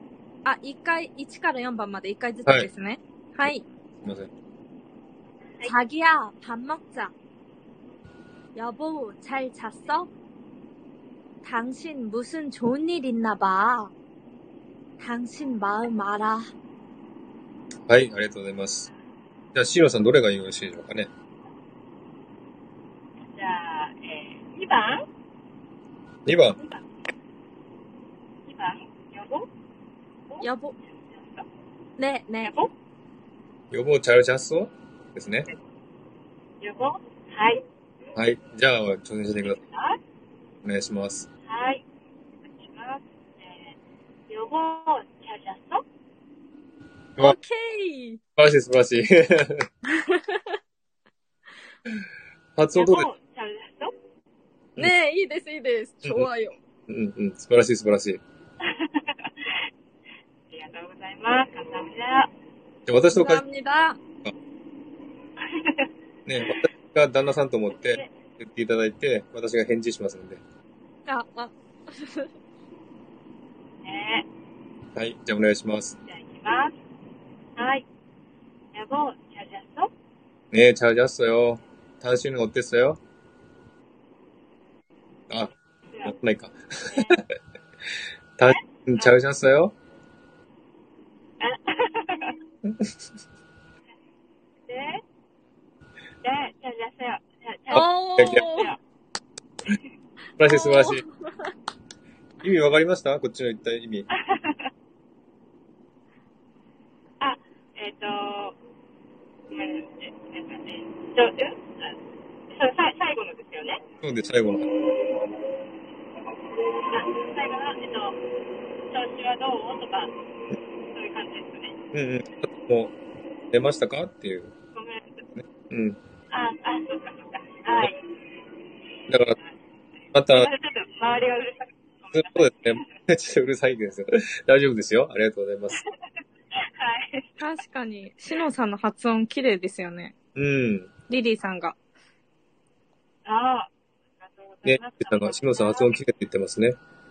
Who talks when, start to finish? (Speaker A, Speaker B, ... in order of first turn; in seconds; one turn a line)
Speaker A: 0.5-3.6
Speaker B: 4.0-4.3
Speaker A: 5.7-7.1
Speaker A: 8.6-10.1
Speaker A: 11.4-13.9
Speaker A: 15.0-16.5
Speaker B: 17.9-18.9
Speaker B: 19.5-21.1
Speaker C: 23.3-25.1
Speaker B: 26.3-26.6
Speaker C: 28.4-29.5
Speaker A: 30.4-30.7
Speaker C: 31.0-31.4
Speaker A: 32.0-32.5
Speaker C: 32.4-32.7
Speaker B: 33.7-35.5
Speaker C: 36.6-37.6
Speaker B: 38.2-39.6
Speaker C: 39.5-40.0
Speaker B: 40.6-41.3
Speaker C: 41.5-41.8
Speaker C: 42.5-43.7
Speaker C: 44.3-45.8
Speaker A: 47.2-48.2
Speaker B: 48.4-49.7
Speaker A: 49.9-50.6
Speaker B: 52.6-53.1
Speaker C: 52.8-53.9
Speaker A: 54.8-56.6
Speaker B: 56.0-56.3
Speaker B: 56.9-58.2
Speaker C: 58.6-59.5
Speaker C: 60.5-62.3
Speaker B: 62.9-63.4
Speaker A: 63.1-64.0
Speaker C: 65.4-65.9
Speaker B: 66.3-70.4
Speaker A: 71.1-72.3
Speaker C: 73.8-74.3
Speaker B: 75.0-76.0
Speaker C: 76.1-76.8
Speaker C: 77.6-77.8
Speaker C: 78.7-79.9
Speaker B: 80.5-83.0
Speaker B: 86.0-87.2
Speaker C: 86.9-87.2
Speaker B: 88.4-89.7
Speaker C: 88.5-89.1
Speaker C: 91.4-92.4
Speaker C: 94.7-95.0
Speaker C: 96.2-98.8
Speaker A: 97.7-98.7
Speaker B: 97.7-98.6
Speaker B: 100.4-101.0
Speaker A: 100.4-101.5
Speaker B: 102.4-104.1
Speaker C: 104.2-104.6
Speaker C: 107.2-108.6
Speaker C: 109.5-111.9
Speaker C: 112.5-113.8
Speaker B: 114.0-114.7
Speaker C: 116.8-118.2
Speaker C: 118.9-120.1
Speaker C: 120.9-121.8
Speaker B: 121.9-123.0
Speaker B: 123.5-124.5
Speaker C: 124.8-125.2
Speaker B: 125.4-126.0
Speaker C: 126.3-128.0
Speaker B: 129.1-129.4
Speaker B: 130.1-130.5
Speaker C: 130.3-132.8
Speaker B: 132.1-135.8
Speaker C: 136.6-137.4
Speaker A: 137.4-140.1
Speaker B: 140.4-140.9
Speaker A: 141.1-141.8
Speaker C: 143.3-143.7
Speaker C: 144.2-146.0
Speaker B: 144.7-146.8